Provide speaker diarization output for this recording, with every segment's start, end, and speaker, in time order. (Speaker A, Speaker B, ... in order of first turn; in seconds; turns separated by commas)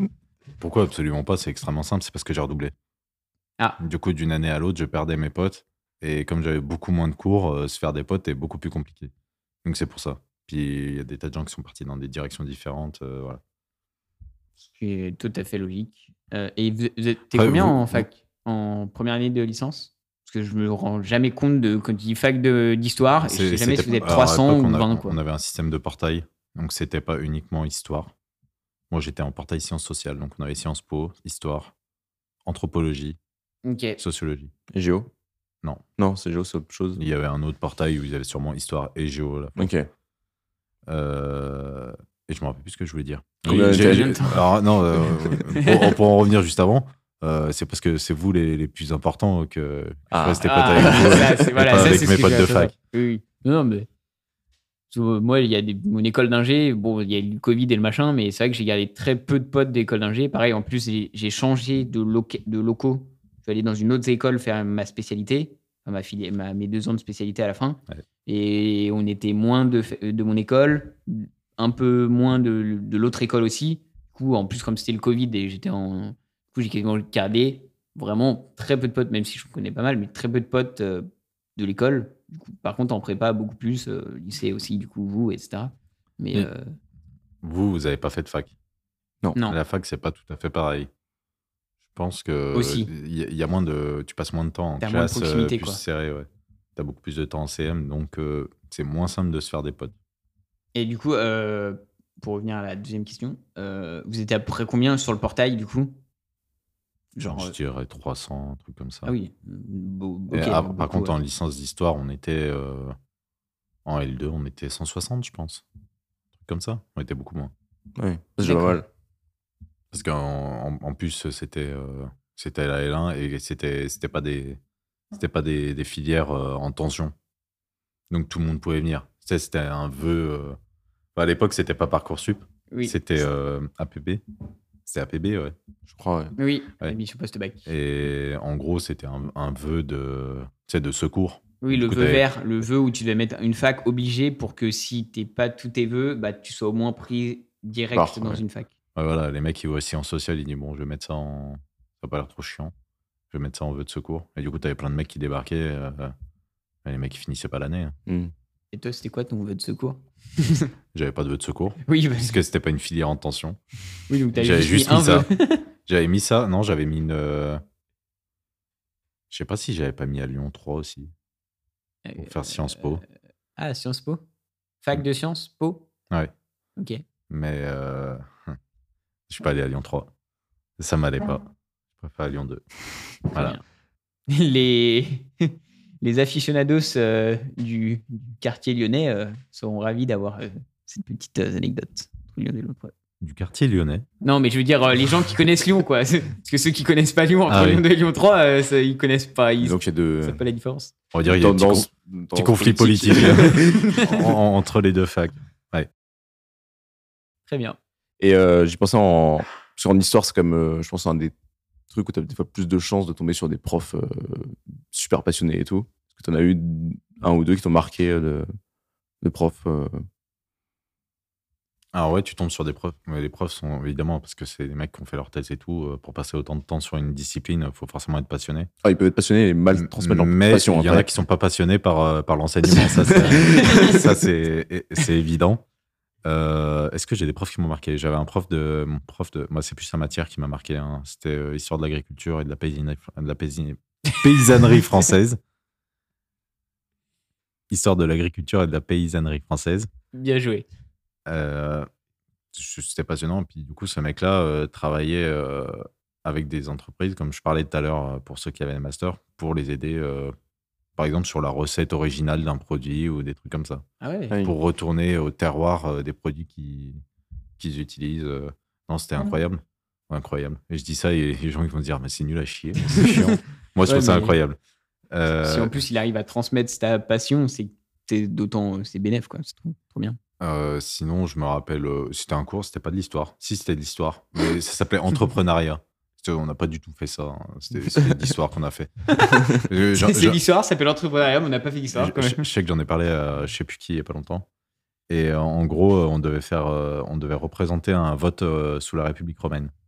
Speaker A: 0.6-2.8, Speaker A: 3.8-9.1, Speaker A: 9.6-13.4, Speaker B: 14.7-25.2, Speaker A: 17.3-18.1, Speaker A: 23.2-28.1, Speaker A: 28.9-31.7, Speaker A: 32.5-33.2, Speaker B: 33.6-34.0, Speaker A: 34.0-34.5, Speaker C: 34.7-35.1, Speaker C: 36.0-37.0, Speaker A: 37.0-39.7, Speaker C: 39.6-39.9, Speaker A: 40.9-52.7, Speaker C: 43.5-44.2, Speaker B: 43.5-46.0, Speaker C: 50.1-51.3, Speaker B: 50.4-53.9, Speaker B: 54.9-86.8, Speaker A: 87.4-88.5, Speaker A: 89.5-90.9, Speaker A: 91.9-100.0, Speaker B: 92.5-92.9, Speaker B: 94.8-95.8, Speaker B: 100.8-106.0, Speaker B: 107.2-107.5, Speaker A: 107.2-109.1, Speaker B: 109.0-111.2, Speaker A: 110.3-113.0, Speaker A: 113.8-115.6, Speaker A: 116.4-117.5, Speaker C: 118.0-118.9, Speaker B: 118.4-118.8, Speaker A: 119.9-124.6, Speaker A: 125.1-127.2, Speaker A: 128.1-130.6, Speaker A: 131.2-134.2, Speaker B: 132.7-133.0, Speaker A: 134.9-135.6, Speaker C: 135.9-136.3, Speaker B: 136.4-137.7, Speaker A: 137.7-142.3, Speaker B: 141.6-148.7, Speaker C: 147.9-148.4, Speaker A: 149.0-152.7, Speaker A: 153.3-156.1, Speaker A: 156.8-158.0, Speaker C: 158.1-158.3, Speaker B: 158.7-160.7, Speaker A: 160.9-163.6, Speaker B: 161.9-162.4, Speaker B: 164.1-165.7, Speaker A: 164.3-165.3, Speaker A: 165.9-167.6, Speaker A: 169.3-171.1, Speaker B: 172.1-173.0, Speaker A: 172.2-173.0, Speaker B: 173.6-174.2, Speaker B: 174.8-175.9, Speaker B: 176.8-177.0, Speaker A: 177.3-178.6, Speaker A: 179.3-180.1, Speaker A: 180.8-181.4, Speaker A: 182.0-182.6, Speaker A: 183.2-183.6, Speaker B: 183.3-183.6, Speaker B: 184.3-192.9, Speaker A: 193.2-194.1, Speaker B: 194.2-200.9, Speaker A: 197.5-197.8, Speaker C: 199.6-200.4, Speaker A: 201.1-205.9, Speaker C: 201.4-203.8, Speaker B: 203.4-204.2, Speaker B: 207.5-207.8, Speaker C: 208.2-211.3, Speaker C: 211.9-218.5, Speaker C: 219.2-220.0, Speaker A: 221.9-228.7, Speaker C: 228.8-231.1, Speaker A: 229.7-235.6, Speaker C: 232.8-233.9, Speaker B: 233.6-234.0, Speaker A: 236.2-245.4, Speaker A: 247.7-249.9, Speaker B: 250.1-250.7, Speaker A: 251.3-251.9, Speaker A: 252.5-260.4, Speaker A: 261.0-263.8, Speaker B: 264.0-264.4, Speaker A: 264.4-267.0, Speaker A: 267.6-274.6, Speaker B: 272.9-274.4, Speaker A: 275.1-275.8, Speaker B: 275.4-280.2, Speaker A: 280.4-288.9, Speaker B: 289.1-292.4, Speaker A: 289.5-290.4, Speaker A: 291.9-294.5, Speaker A: 295.1-299.7